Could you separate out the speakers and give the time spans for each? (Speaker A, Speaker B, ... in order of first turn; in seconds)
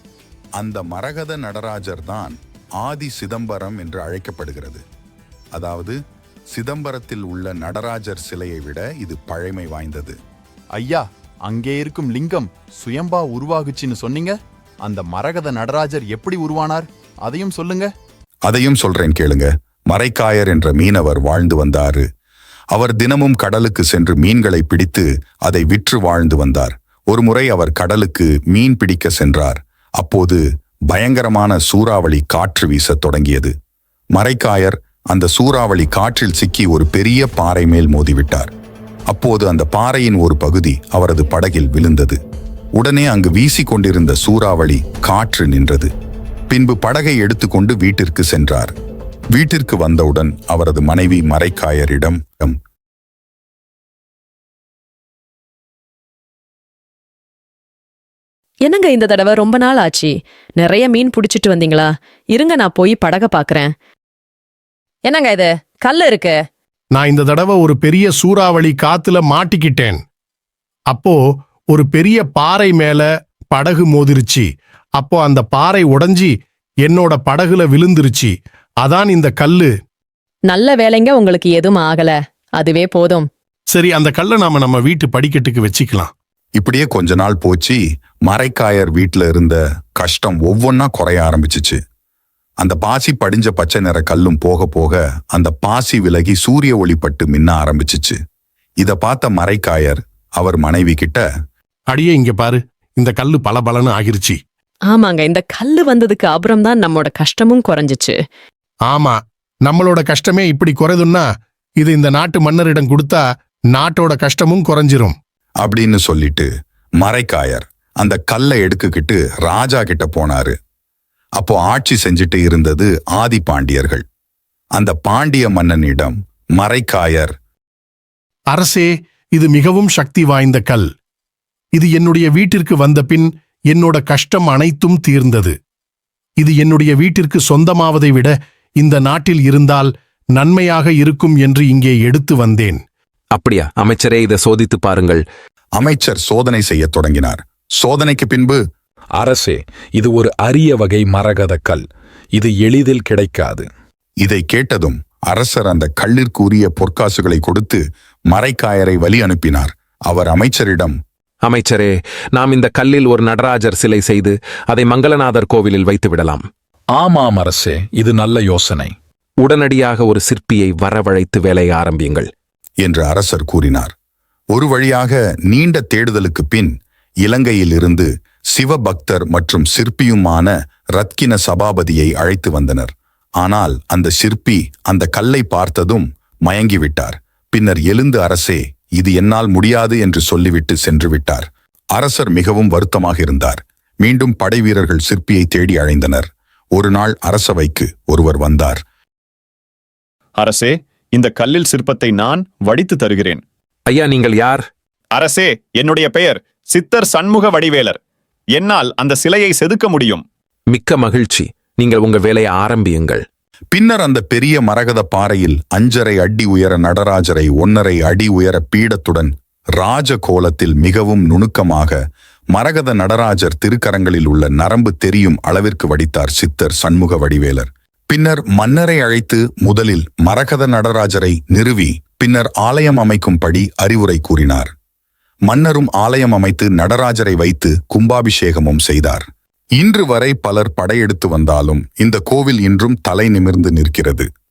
Speaker A: 0.6-4.8, 5.5-6.0, 6.5-10.2, 18.5-22.0, 22.7-33.5, 34.1-38.5, 39.1-42.2, 42.8-45.9, 46.5-48.7, 49.3-52.6, 86.5-91.8, 92.6-98.2, 98.8-101.2, 115.6-116.5, 117.0-120.5, 121.4-124.0, 124.8-127.3, 145.8-148.6, 154.2-160.9, 172.8-173.9, 174.5-176.7, 177.2-198.8, 213.7-222.0, 222.5-234.7, 235.5-239.2, 239.8-244.3
Speaker B: 10.7-17.9
Speaker C: 58.6-63.7, 65.0-66.5, 80.5-83.3, 104.9-108.2
Speaker D: 67.0-70.0, 70.9-71.2, 71.7-74.5, 75.0-76.3, 76.9-79.7, 83.7-86.1, 101.9-104.4, 108.9-109.1, 109.7-111.2, 111.8-113.2, 113.7-115.2, 128.5-130.8, 131.7-135.5, 136.4-142.8
Speaker E: 143.3-145.2, 161.4-166.5, 169.4-172.3, 203.9-204.7, 210.7-213.2
Speaker F: 149.2-151.8, 152.3-153.7, 167.0-168.9
Speaker G: 200.4-203.4, 205.2-208.0, 208.5-210.2